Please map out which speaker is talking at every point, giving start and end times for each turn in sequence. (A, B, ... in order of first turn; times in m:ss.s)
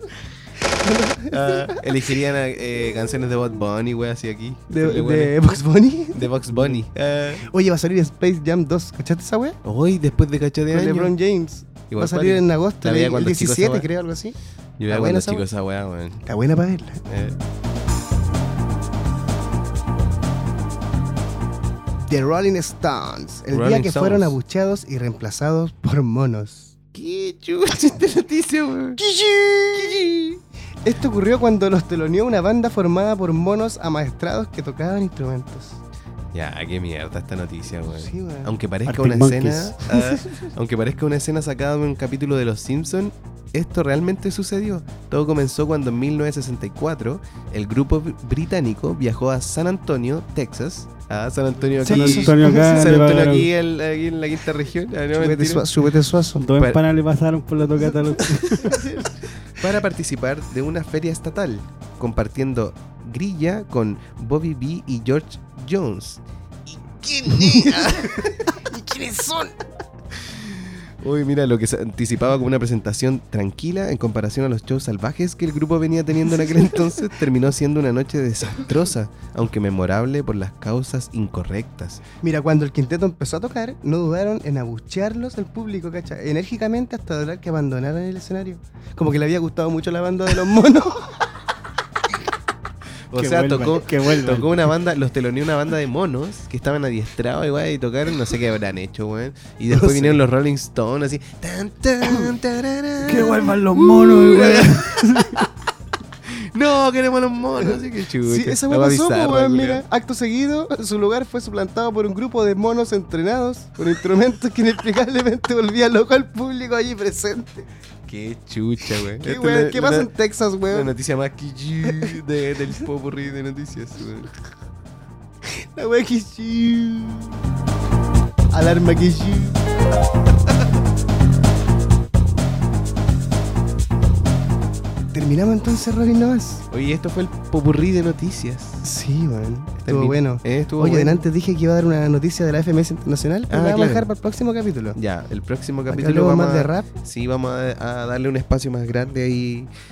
0:00.6-0:01.9 A
0:01.3-0:05.4 B
0:04.7-0:06.8 A
0:06.1-0:07.4 B
0:07.4-0:09.6 A
0:09.6-0:11.2 B
0:10.7-0:14.4 A
0:11.9-0:13.9 B
0:14.8-0:16.2 B
0:14.9-0:15.4 A
0:16.2-0:17.0 A
0:17.1-0:17.4 B
0:22.0-0:26.7 A
0:23.5-0:24.4 B
0:26.9-0:29.0 B
0:29.0-0:35.8 A
0:36.3-0:55.7 B
0:37.9-0:38.6 A
0:38.9-0:39.8 C
0:51.8-0:53.0 A
0:51.8-0:53.5 C
0:55.1-0:56.4 A
0:56.4-0:58.9 C
0:56.6-0:56.8 B
0:58.2-1:08.6 B
1:07.4-1:09.6 A
1:10.1-1:22.0 B
1:22.2-1:31.2 A
1:33.1-1:45.5 B
1:33.1-1:34.7 C
1:39.7-1:40.2 A
1:43.0-1:45.4 C
1:43.6-1:44.1 A
1:46.2-1:49.8 B
1:47.6-1:57.7 A
1:58.1-2:00.1 B
1:59.0-2:00.9 A
2:00.7-2:04.3 B
2:01.8-2:02.2 A
2:05.4-2:07.4 A
2:08.5-2:09.6 A
2:15.1-2:16.6 A
2:16.7-2:18.8 B
2:18.8-2:25.0 A
2:19.8-2:21.2 B
2:23.5-2:24.1 B
2:25.0-2:29.7 B
2:25.9-2:26.9 A